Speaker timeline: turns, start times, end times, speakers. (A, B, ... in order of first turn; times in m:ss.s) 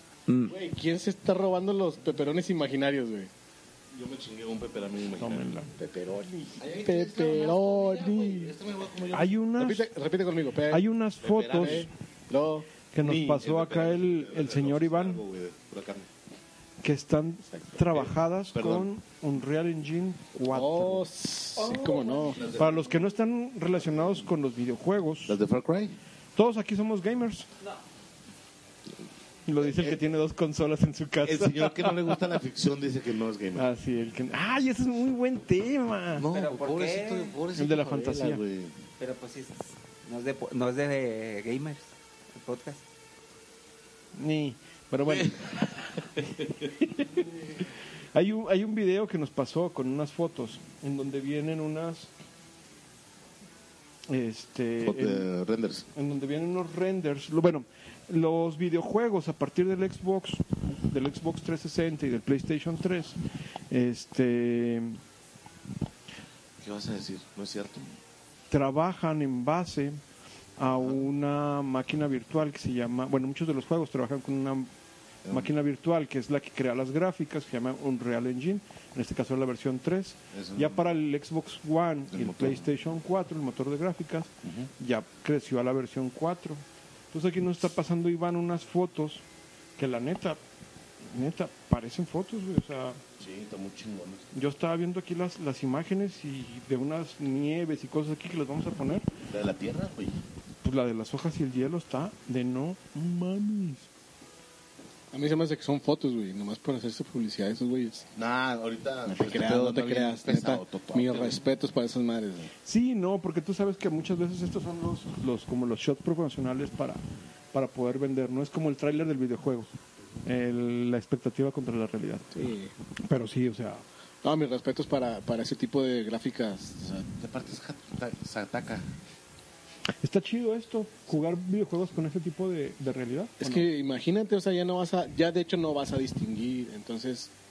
0:00.3-0:00.5 A
0:00.5-0:03.3 B
0:03.9-0:05.5 C
0:05.2-0:05.8 D
0:05.8-0:08.5 B
0:06.6-0:09.4 C
0:09.1-0:09.9 D
0:09.6-0:10.8 B
0:10.7-0:11.9 D
0:11.2-0:11.9 C
0:11.5-0:12.7 B
0:12.9-0:15.2 D
0:13.0-0:16.1 C
0:16.8-0:21.1 D
0:18.0-0:18.9 C
0:20.4-0:22.4 B
0:21.6-0:22.4 A
0:22.2-0:23.1 C
0:22.5-0:25.4 D
0:23.9-0:24.2 C
0:25.3-0:26.0 C
0:26.4-0:27.5 D
0:29.5-0:32.2 D
0:29.6-0:30.0 C
0:31.2-0:33.7 C
0:33.6-0:36.2 D
0:36.2-0:38.8 C
0:36.3-0:37.3 A
0:37.6-0:38.4 D
0:39.0-0:42.8 A
0:44.2-0:45.5 D
0:45.1-0:45.6 C
0:46.2-0:46.5 C
0:46.8-0:47.2 D
0:48.1-0:52.1 D
0:54.1-0:55.3 D
0:54.8-0:55.9 C
0:55.9-1:03.2 D
1:03.7-1:05.0 D
1:06.6-1:07.9 C
1:08.5-1:10.0 D
1:10.6-1:14.7 D
1:10.6-1:11.0 C
1:15.3-1:29.2 D
1:20.3-1:20.8 C
1:22.1-1:22.7 C
1:24.4-1:24.7 C
1:29.8-1:30.4 D
1:31.1-1:33.0 D
1:33.2-1:34.4 C
1:34.3-1:39.1 D
1:39.3-1:40.2 C
1:40.6-1:43.9 D
1:45.1-1:48.1 B
1:48.2-1:51.4 C
1:49.1-1:52.5 B
1:52.6-1:57.0 D
1:57.5-1:59.7 D
2:00.2-2:02.3 D
2:02.3-2:02.7 B
2:03.0-2:03.8 D
2:04.2-2:07.0 B
2:06.8-2:08.9 C
2:10.0-2:13.7 D
2:13.4-2:17.3 B